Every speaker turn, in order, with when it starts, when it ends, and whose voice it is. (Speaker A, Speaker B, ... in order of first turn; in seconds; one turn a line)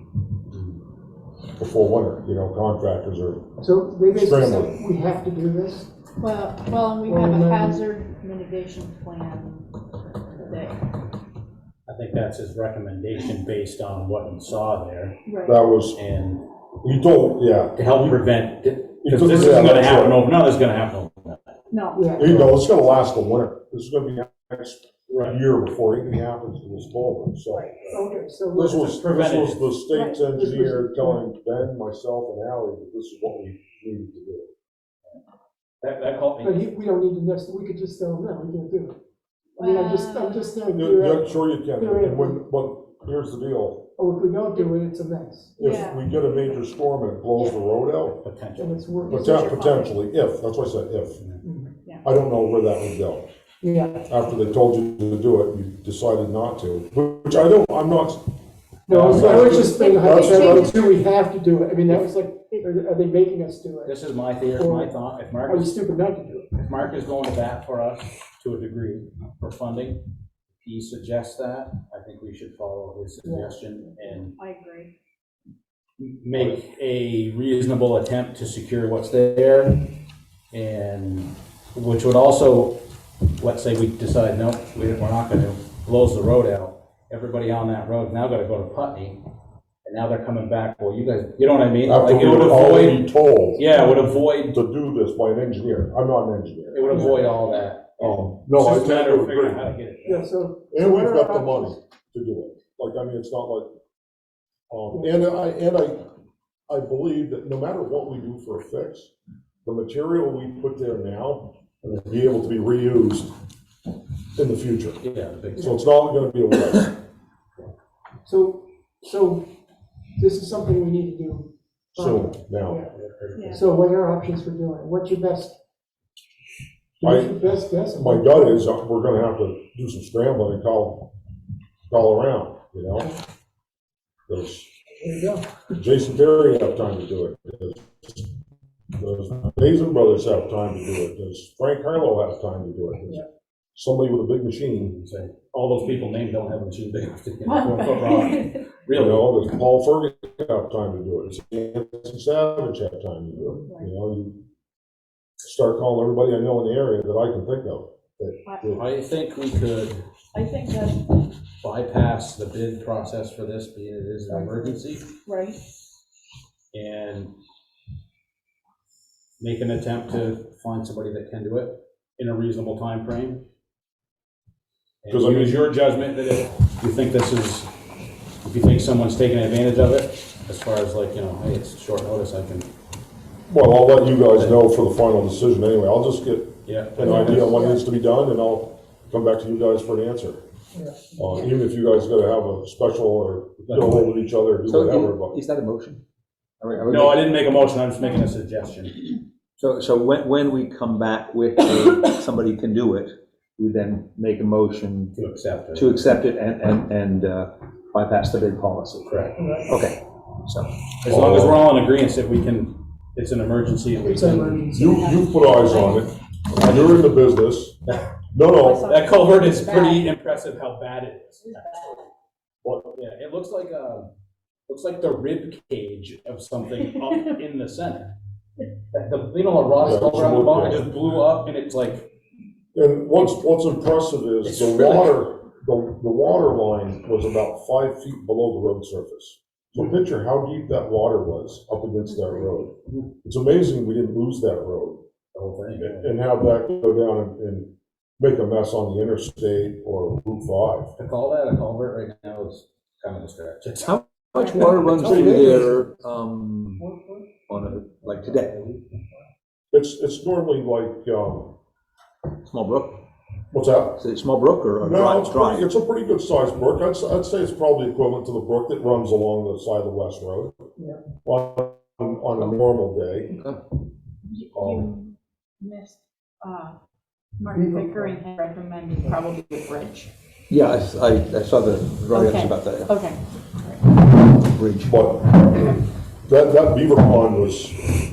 Speaker A: 1.6-3.5
Speaker B: 3.6-5.9
Speaker A: 4.1-4.8
Speaker C: 6.2-9.7
Speaker B: 7.0-7.9
Speaker C: 10.4-10.9
Speaker D: 11.9-15.2
Speaker C: 15.3-15.6
Speaker A: 15.4-16.0
Speaker D: 15.9-16.4
Speaker A: 16.8-18.2
Speaker D: 17.8-21.5
Speaker A: 19.0-20.2
Speaker C: 21.7-22.2
Speaker B: 21.9-22.6
Speaker A: 22.2-28.0
Speaker D: 25.1-25.4
Speaker B: 27.9-28.8
Speaker D: 28.5-29.8
Speaker A: 28.6-34.5
Speaker C: 29.9-30.2
Speaker B: 30.2-31.2
Speaker D: 35.8-36.7
Speaker B: 36.4-39.0
Speaker C: 39.6-40.7
Speaker B: 39.6-42.4
Speaker A: 40.7-43.9
Speaker B: 44.0-45.6
Speaker A: 45.6-48.2
Speaker C: 45.6-46.0
Speaker D: 48.1-48.9
Speaker B: 48.6-49.5
Speaker C: 49.0-50.0
Speaker A: 49.1-51.2
Speaker B: 51.4-51.7
Speaker A: 52.0-53.2
Speaker B: 53.6-54.1
Speaker A: 54.1-58.2
Speaker D: 58.9-59.8
Speaker B: 58.9-64.0
Speaker A: 59.1-60.6
Speaker C: 59.6-61.0
Speaker C: 61.9-62.7
Speaker D: 63.9-65.8
Speaker B: 64.6-64.9
Speaker B: 65.5-66.6
Speaker D: 66.6-70.0
Speaker D: 70.6-74.3
Speaker B: 73.2-73.7
Speaker C: 74.3-74.9
Speaker D: 76.0-79.8
Speaker A: 76.3-76.6
Speaker D: 80.5-82.8
Speaker D: 83.4-89.2
Speaker D: 89.8-94.6
Speaker A: 91.8-93.7
Speaker B: 93.8-94.0
Speaker A: 94.5-97.2
Speaker D: 96.7-100.3
Speaker B: 96.9-97.3
Speaker A: 98.0-99.6
Speaker B: 100.0-101.7
Speaker A: 100.7-103.7
Speaker A: 104.7-106.0
Speaker B: 104.9-105.2
Speaker A: 106.7-109.1
Speaker A: 109.7-113.3
Speaker A: 114.4-115.0
Speaker D: 115.0-115.8
Speaker A: 115.6-116.9
Speaker B: 118.2-119.5
Speaker B: 120.2-122.9
Speaker A: 121.9-122.8
Speaker D: 122.9-123.7
Speaker C: 123.3-123.7
Speaker B: 123.5-125.6
Speaker B: 127.0-128.6
Speaker A: 127.0-127.3
Speaker A: 127.9-131.1
Speaker A: 131.9-133.1
Speaker A: 134.3-134.7
Speaker B: 135.0-135.4
Speaker A: 135.8-138.3
Speaker A: 139.0-144.9
Speaker D: 144.8-149.3
Speaker C: 147.5-148.6
Speaker A: 148.9-154.4
Speaker A: 155.4-158.8
Speaker D: 158.7-160.0
Speaker C: 160.3-161.2
Speaker D: 161.6-165.1
Speaker C: 165.2-165.6
Speaker D: 166.7-167.3
Speaker D: 169.4-173.4
Speaker D: 175.0-177.7
Speaker A: 175.1-175.6
Speaker D: 178.4-182.7
Speaker A: 183.5-190.4
Speaker D: 184.3-184.6
Speaker D: 186.7-187.6
Speaker B: 187.1-187.8
Speaker A: 191.2-195.4
Speaker D: 193.7-194.1
Speaker E: 194.7-196.0
Speaker E: 196.6-197.3
Speaker D: 196.9-199.0
Speaker E: 199.6-205.2
Speaker D: 205.2-206.1
Speaker E: 205.7-209.1
Speaker D: 209.1-209.5
Speaker B: 209.4-209.7
Speaker E: 209.7-210.8
Speaker D: 211.0-214.7
Speaker A: 211.1-211.7
Speaker B: 214.0-215.4
Speaker A: 214.7-217.8
Speaker C: 215.6-216.0
Speaker D: 216.5-217.1
Speaker A: 218.3-218.9
Speaker C: 218.6-220.1
Speaker D: 218.9-222.1
Speaker C: 221.5-221.8
Speaker A: 222.6-222.9
Speaker D: 222.9-224.1
Speaker D: 224.7-228.1
Speaker D: 228.9-232.1
Speaker A: 229.8-230.8
Speaker A: 232.7-242.7
Speaker D: 234.4-235.2
Speaker A: 243.2-245.0
Speaker D: 245.3-246.1
Speaker A: 245.8-250.9
Speaker D: 251.0-254.0
Speaker E: 253.8-256.8
Speaker C: 254.4-254.7
Speaker A: 254.8-255.7
Speaker B: 255.2-255.6
Speaker B: 256.8-257.2
Speaker E: 257.5-258.6
Speaker D: 258.3-258.6
Speaker A: 259.7-261.6
Speaker E: 262.4-263.0
Speaker A: 263.5-264.0
Speaker E: 264.0-265.7
Speaker A: 264.8-270.5
Speaker A: 271.2-273.3
Speaker C: 274.3-276.8
Speaker A: 274.5-274.9
Speaker C: 277.4-280.1
Speaker B: 277.8-278.2
Speaker E: 280.5-283.0
Speaker C: 282.1-283.7
Speaker E: 284.3-285.0
Speaker A: 284.8-287.9